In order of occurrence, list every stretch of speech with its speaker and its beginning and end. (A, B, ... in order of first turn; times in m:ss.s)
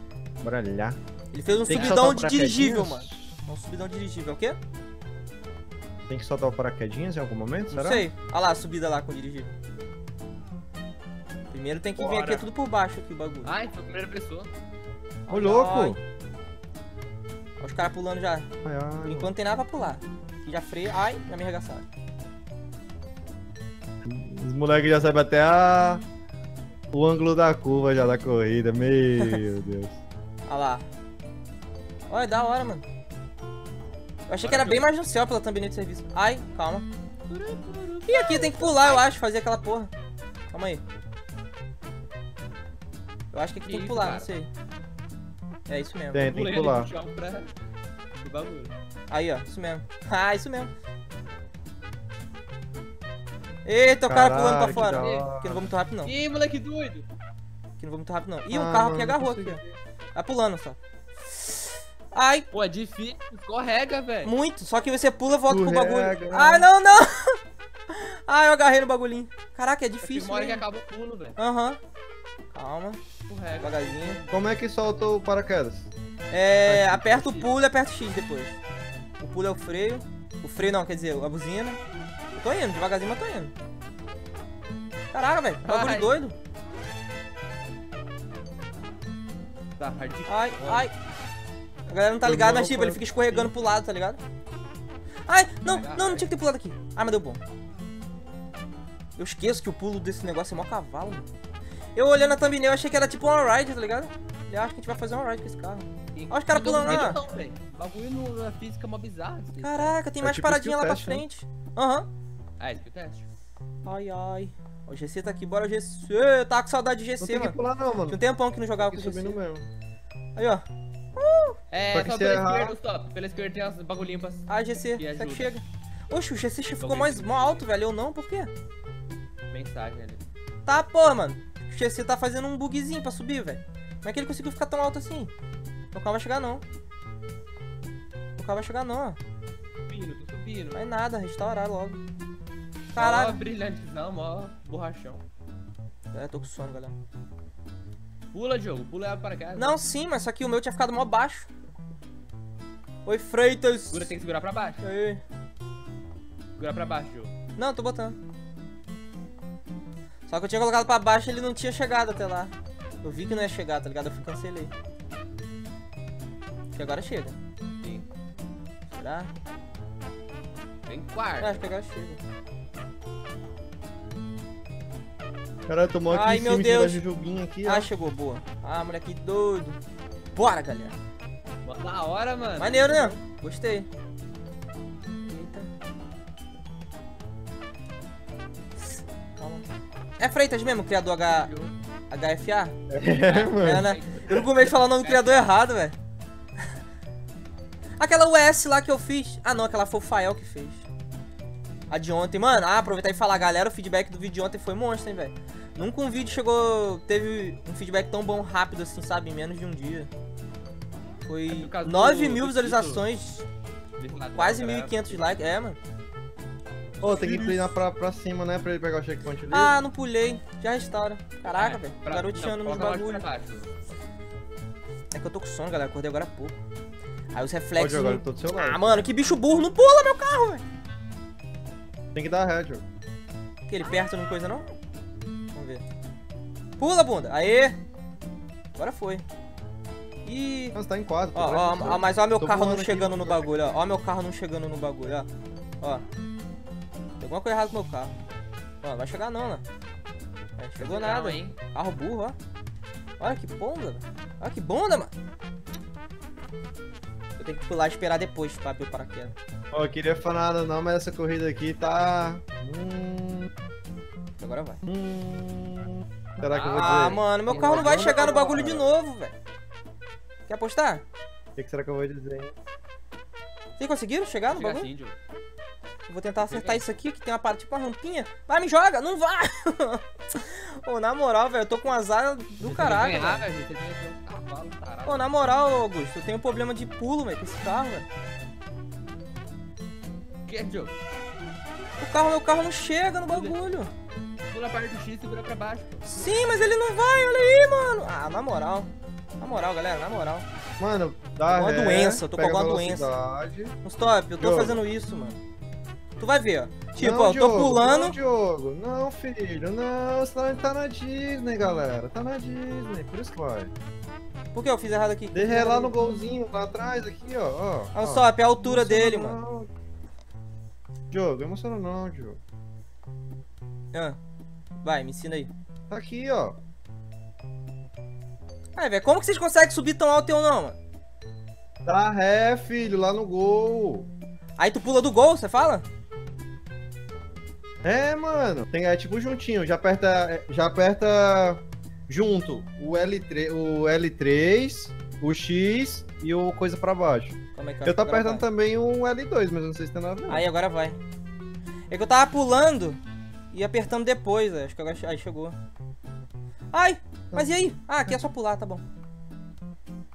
0:00.4-0:01.0 A
0:01.3-0:04.6 B
0:01.7-0:03.2 A
0:01.7-0:02.0 C
0:06.1-0:08.1 A
0:07.7-0:09.6 B
0:11.5-0:13.5 B
0:12.0-0:12.5 C
0:13.4-0:14.5 C
0:15.3-0:16.0 B
0:15.3-0:16.0 A
0:17.6-0:18.5 B
0:18.6-0:19.3 A
0:19.0-0:21.9 B
0:24.0-0:26.0 A
0:26.9-0:30.0 A
0:30.5-0:30.9 B
0:32.1-0:32.8 B
0:34.3-0:36.9 B
0:34.4-0:34.9 C
0:37.3-0:39.0 C
0:38.1-0:39.9 B
0:40.5-0:40.8 B
0:43.3-0:44.5 B
0:43.6-0:44.3 C
0:45.7-0:46.4 B
0:46.1-0:46.9 A
0:46.2-0:47.5 C
0:48.2-0:48.8 C
0:49.1-0:50.7 B
0:53.6-0:56.1 B
0:54.1-0:55.7 A
0:54.6-0:55.3 C
0:56.0-0:57.1 C
0:57.8-0:59.6 B
0:58.5-0:59.7 A
1:00.2-1:00.8 B
1:01.3-1:02.5 B
1:02.5-1:04.3 C
1:04.2-1:10.6 B
1:05.5-1:06.7 A
1:10.0-1:11.4 C
1:11.4-1:11.8 B
1:12.5-1:13.0 B
1:13.3-1:14.5 C
1:13.6-1:14.2 B
1:14.3-1:15.9 A
1:16.3-1:18.6 B
1:16.7-1:17.2 A
1:17.1-1:17.5 C
1:19.2-1:21.8 B
1:22.4-1:23.5 B
1:25.1-1:26.4 B
1:25.6-1:26.2 C
1:29.8-1:30.9 C
1:30.3-1:30.9 B
1:31.9-1:34.2 B
1:32.2-1:33.5 A
1:35.3-1:37.4 B
1:35.6-1:36.3 C
1:39.2-1:41.3 B
1:42.0-1:47.2 B
1:46.2-1:50.0 C
1:49.6-1:52.1 B
1:50.2-1:51.2 A
1:52.6-1:53.3 C
1:53.8-1:59.4 B
1:57.2-1:58.2 A
1:58.8-1:59.7 A
2:00.4-2:00.7 B
2:01.2-2:01.6 B
2:01.7-2:05.5 C
2:01.9-2:02.8 A
2:04.5-2:08.5 B
2:06.8-2:07.6 C
2:09.5-2:10.2 C
2:10.7-2:15.3 B
2:15.9-2:16.6 B
2:18.4-2:19.2 B
2:19.9-2:20.8 C
2:20.7-2:22.0 B
2:22.9-2:23.4 B
2:23.0-2:25.2 C
2:26.1-2:27.0 B
2:28.3-2:29.8 C
2:29.6-2:31.5 B
2:33.0-2:34.1 B
2:33.9-2:34.8 C
2:34.8-2:35.2 B
2:36.6-2:37.3 C
2:37.6-2:38.2 B
2:40.3-2:44.7 B
2:46.8-2:47.4 B
2:47.8-2:48.1 C
2:48.9-2:49.3 B
2:50.9-2:51.6 C
2:51.4-2:52.2 B
2:55.7-2:57.9 A
2:56.1-2:57.0 B
2:57.6-2:59.8 B
3:00.3-3:01.0 B
3:01.6-3:03.2 C
3:02.6-3:03.9 B
3:05.3-3:05.7 B
3:08.8-3:09.7 B
3:10.2-3:11.5 B
3:11.2-3:11.7 C
3:12.1-3:12.8 B
3:12.9-3:14.4 A
3:13.3-3:15.5 C
3:13.6-3:16.0 B
3:18.0-3:20.9 B
3:21.9-3:30.1 B
3:31.2-3:33.5 B
3:31.5-3:33.1 C
3:34.0-3:35.3 C
3:34.4-3:35.8 B
3:37.0-3:39.8 A
3:37.0-3:37.7 C
3:39.5-3:43.3 B
3:41.6-3:43.7 C
3:45.1-3:46.6 B
3:47.3-3:50.6 B
3:47.8-3:49.1 A
3:52.1-3:52.8 A
3:53.7-3:54.7 B
3:55.5-3:55.8 B
3:56.8-3:57.8 B
3:58.8-3:59.2 B
4:00.2-4:00.8 B
4:00.7-4:03.8 A
4:01.3-4:05.3 B
4:07.2-4:08.2 B
4:08.8-4:09.6 B
4:10.6-4:12.4 B
4:10.8-4:11.6 C
4:13.2-4:15.1 B
4:17.4-4:19.4 B
4:19.7-4:23.5 A
4:24.4-4:24.8 B
4:24.9-4:28.8 A
4:26.4-4:28.8 C
4:26.7-4:29.3 B
4:30.5-4:31.0 B
4:31.6-4:32.5 A
4:33.8-4:34.9 B
4:34.5-4:35.2 C
4:36.1-4:43.5 B
4:36.4-4:36.8 C
4:42.6-4:45.3 C
4:45.0-4:48.1 B
4:50.5-4:51.0 C
4:52.0-4:53.9 B
4:53.3-4:53.6 C
4:54.5-4:56.3 C
4:56.0-5:00.4 B
5:00.8-5:03.8 A
5:01.5-5:03.1 B
5:03.8-5:05.4 B
5:04.4-5:04.8 A
5:06.2-5:08.2 B
5:07.0-5:13.7 A
5:14.5-5:16.0 B
5:15.3-5:19.7 A
5:17.9-5:19.4 B
5:21.1-5:22.4 A
5:23.9-5:24.2 B
5:24.8-5:25.5 B
5:25.9-5:26.6 A
5:28.8-5:30.8 B
5:31.8-5:34.1 A
5:34.6-5:35.9 B
5:37.8-5:50.4 A
5:47.6-5:48.5 B
5:50.3-5:51.0 B
5:51.9-5:53.0 B
5:53.5-5:55.6 B
5:56.7-5:58.8 B
5:57.3-5:58.2 A